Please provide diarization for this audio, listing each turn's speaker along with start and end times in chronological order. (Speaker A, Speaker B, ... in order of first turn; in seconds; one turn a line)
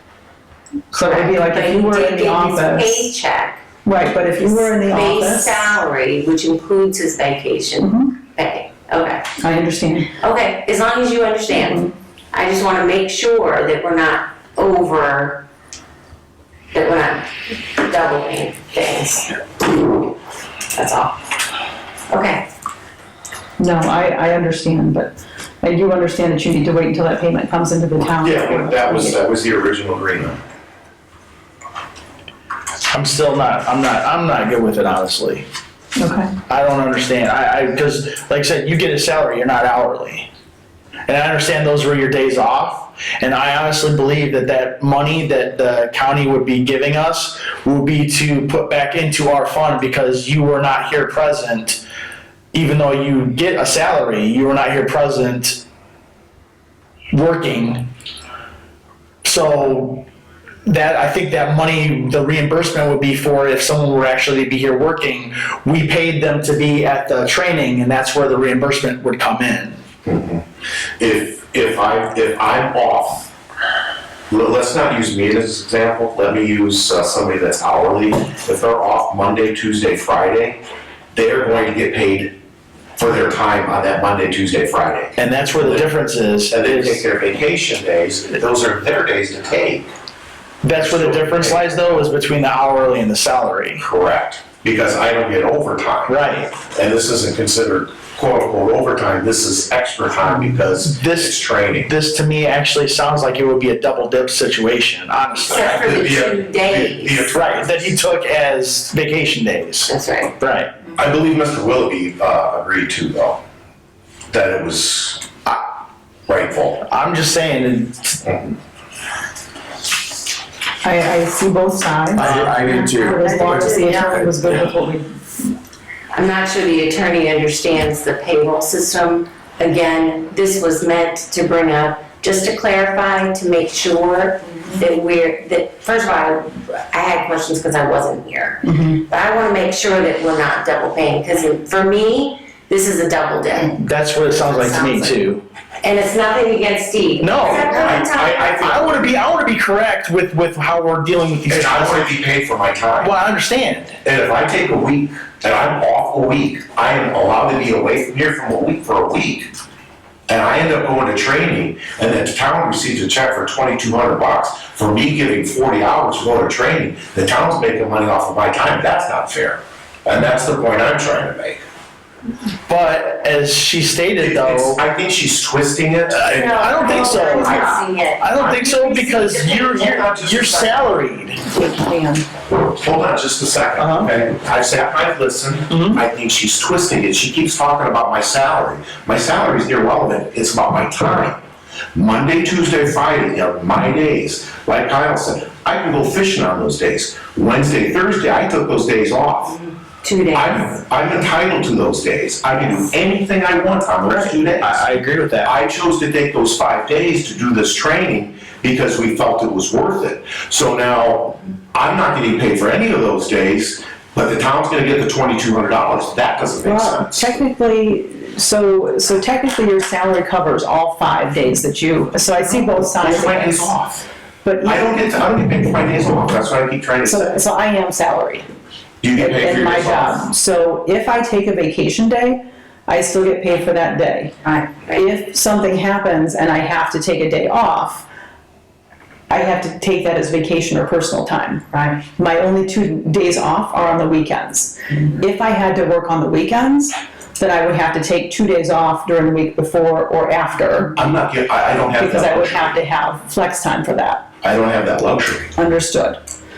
Speaker A: 0.9-3.0
Speaker B: 1.0-3.6
Speaker A: 3.8-5.8
Speaker B: 4.8-9.2
Speaker A: 7.8-8.1
Speaker A: 9.4-10.1
Speaker B: 10.2-15.4
Speaker A: 11.5-11.9
Speaker B: 16.7-20.1
Speaker B: 20.7-21.2
Speaker B: 22.1-22.4
Speaker A: 23.6-29.2
Speaker C: 28.1-30.4
Speaker D: 32.9-35.4
Speaker A: 36.0-36.3
Speaker D: 36.5-40.3
Speaker D: 41.1-51.8
Speaker D: 52.5-55.6
Speaker D: 57.1-57.9
Speaker D: 59.2-60.0
Speaker D: 60.6-69.8
Speaker C: 70.0-70.4
Speaker C: 71.0-73.3
Speaker C: 74.3-80.6
Speaker C: 81.1-82.3
Speaker C: 83.0-85.9
Speaker D: 85.2-87.0
Speaker C: 86.5-89.9
Speaker D: 90.6-93.8
Speaker C: 90.7-91.7
Speaker C: 93.8-101.9
Speaker D: 96.1-96.5
Speaker D: 100.5-105.8
Speaker B: 105.4-107.2
Speaker C: 105.5-108.0
Speaker D: 107.3-110.7
Speaker B: 109.9-110.3
Speaker C: 110.9-113.4
Speaker C: 114.3-115.2
Speaker C: 116.3-116.8
Speaker D: 116.8-118.2
Speaker C: 118.2-118.5
Speaker A: 120.8-125.1
Speaker D: 122.2-123.3
Speaker B: 122.6-124.5
Speaker B: 126.1-143.8
Speaker A: 138.6-139.0
Speaker D: 143.7-145.4
Speaker B: 144.3-145.2
Speaker B: 145.8-148.4
Speaker D: 147.2-152.1
Speaker C: 147.4-149.2
Speaker C: 151.5-153.1
Speaker D: 153.0-154.0
Speaker C: 154.0-159.5
Speaker C: 160.3-171.6
Speaker D: 172.7-174.8
Speaker C: 174.2-177.8
Speaker D: 176.1-181.4
Speaker B: 176.2-180.1
Speaker C: 179.4-180.9
Speaker A: 181.4-182.3
Speaker C: 182.6-191.4
Speaker D: 183.8-184.1
Speaker D: 185.7-186.0
Speaker C: 191.9-199.6
Speaker B: 199.7-200.6
Speaker C: 200.3-217.3
Speaker D: 204.1-205.5
Speaker A: 216.6-223.8
Speaker C: 223.0-224.1
Speaker A: 224.4-224.9
Speaker C: 224.6-227.4
Speaker A: 227.0-228.5
Speaker C: 229.0-230.3
Speaker A: 229.2-238.1
Speaker B: 234.5-234.9
Speaker A: 239.3-251.0
Speaker C: 250.9-252.8
Speaker A: 251.9-254.2
Speaker C: 254.4-255.5
Speaker A: 255.6-256.2